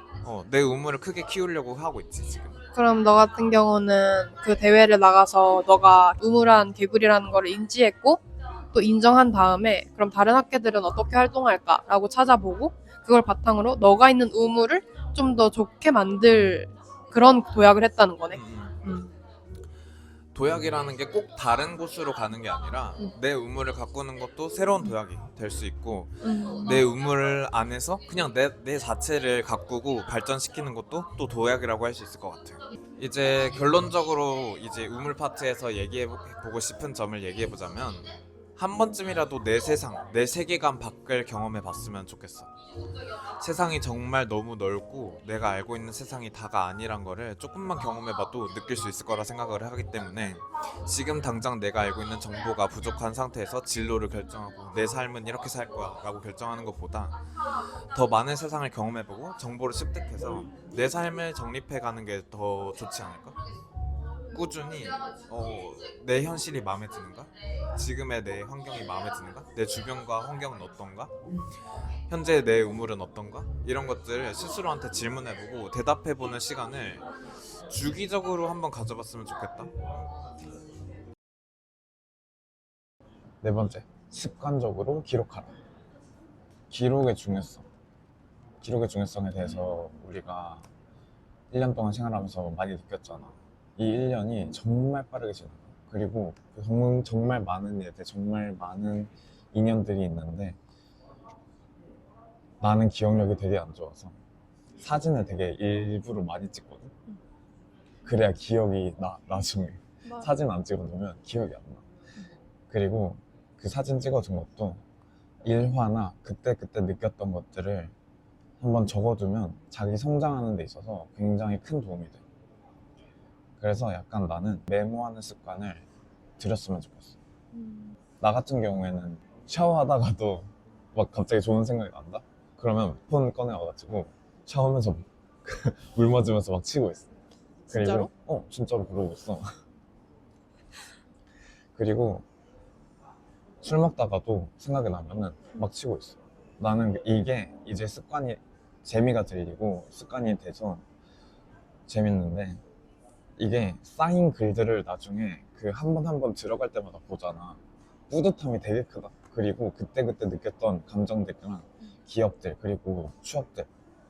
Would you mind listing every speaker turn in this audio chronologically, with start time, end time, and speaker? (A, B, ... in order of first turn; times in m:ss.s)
0:00.2-0:02.6 A
0:02.8-0:08.2 B
0:08.7-0:19.1 B
0:18.3-0:18.8 A
0:20.3-0:38.0 A
0:26.2-0:26.8 B
0:38.6-0:42.5 A
0:43.4-0:57.1 A
0:57.9-1:03.4 A
1:04.3-1:11.1 A
1:12.1-1:17.0 A
1:17.7-1:19.7 A
1:23.4-1:25.6 C
1:26.7-1:27.6 C
1:28.6-1:30.6 C
1:31.5-1:40.6 C
1:42.6-1:44.2 C
1:44.8-1:46.9 C
1:48.0-1:51.8 C
1:50.0-1:50.3 B
1:52.7-1:54.8 C
1:55.4-1:57.9 C
1:58.6-2:02.2 C
2:03.6-2:05.8 C
2:06.4-2:07.1 C
2:07.5-2:08.0 B
2:08.2-2:17.1 C
2:17.7-2:18.1 B
2:17.7-2:19.5 C
2:21.7-2:22.2 C
2:23.6-2:30.8 C
2:31.9-2:32.6 C
2:33.4-2:43.7 C